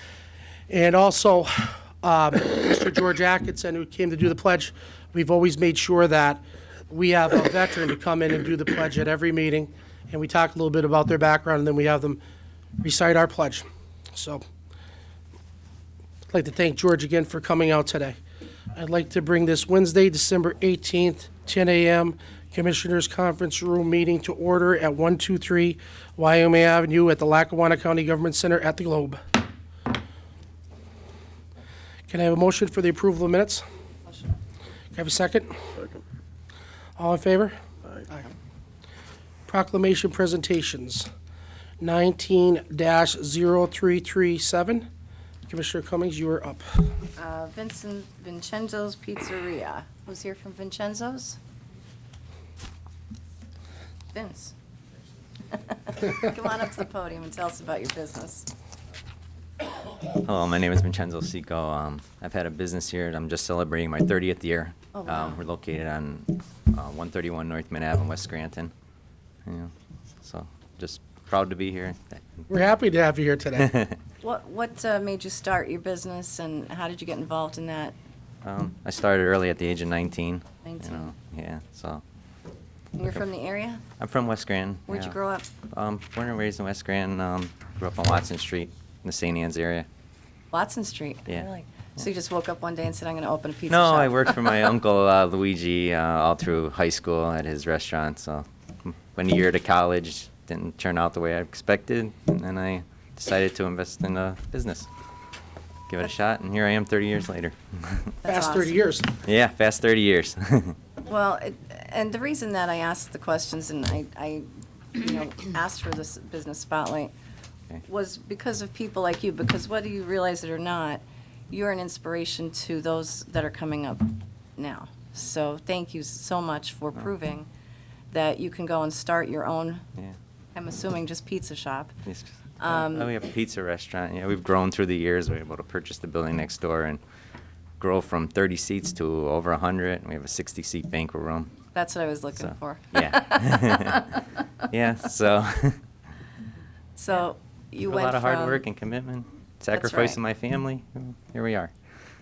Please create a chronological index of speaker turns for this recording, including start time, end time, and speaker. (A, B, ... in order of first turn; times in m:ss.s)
0:00.7-0:12.2 A
0:12.8-0:14.4 A
0:16.3-0:18.2 A
0:18.8-0:29.2 A
0:32.1-0:33.6 A
0:34.9-0:35.6 A
0:37.0-0:37.6 A
0:39.5-0:41.1 A
0:41.8-0:44.9 A
0:45.5-0:46.9 A
0:47.2-0:51.4 B
0:54.1-0:54.5 B
0:55.5-0:58.5 B
1:00.1-1:08.7 C
1:04.9-1:05.4 B
1:09.4-1:09.7 C
1:10.2-1:12.5 C
1:12.5-1:13.8 A
1:13.6-1:14.0 C
1:14.2-1:17.9 B
1:18.4-1:22.0 C
1:20.6-1:21.1 B
1:22.9-1:23.8 B
1:24.0-1:25.1 C
1:24.9-1:25.5 B
1:25.7-1:29.9 C
1:30.5-1:34.6 B
1:33.7-1:44.9 C
1:45.9-1:48.1 C
1:48.2-1:48.8 B
1:48.3-1:49.1 A
1:49.2-1:50.8 C
1:51.0-1:57.1 B
1:57.8-2:07.5 B
2:08.1-2:09.8 B
2:10.5-2:11.9 B
2:12.0-2:17.0 C
2:12.6-2:13.1 B
2:17.8-2:21.5 C
2:21.7-2:24.4 B
2:22.4-2:24.1 C
2:24.7-2:25.8 C
2:27.0-2:28.6 B
2:27.8-2:31.7 C
2:29.7-2:30.2 B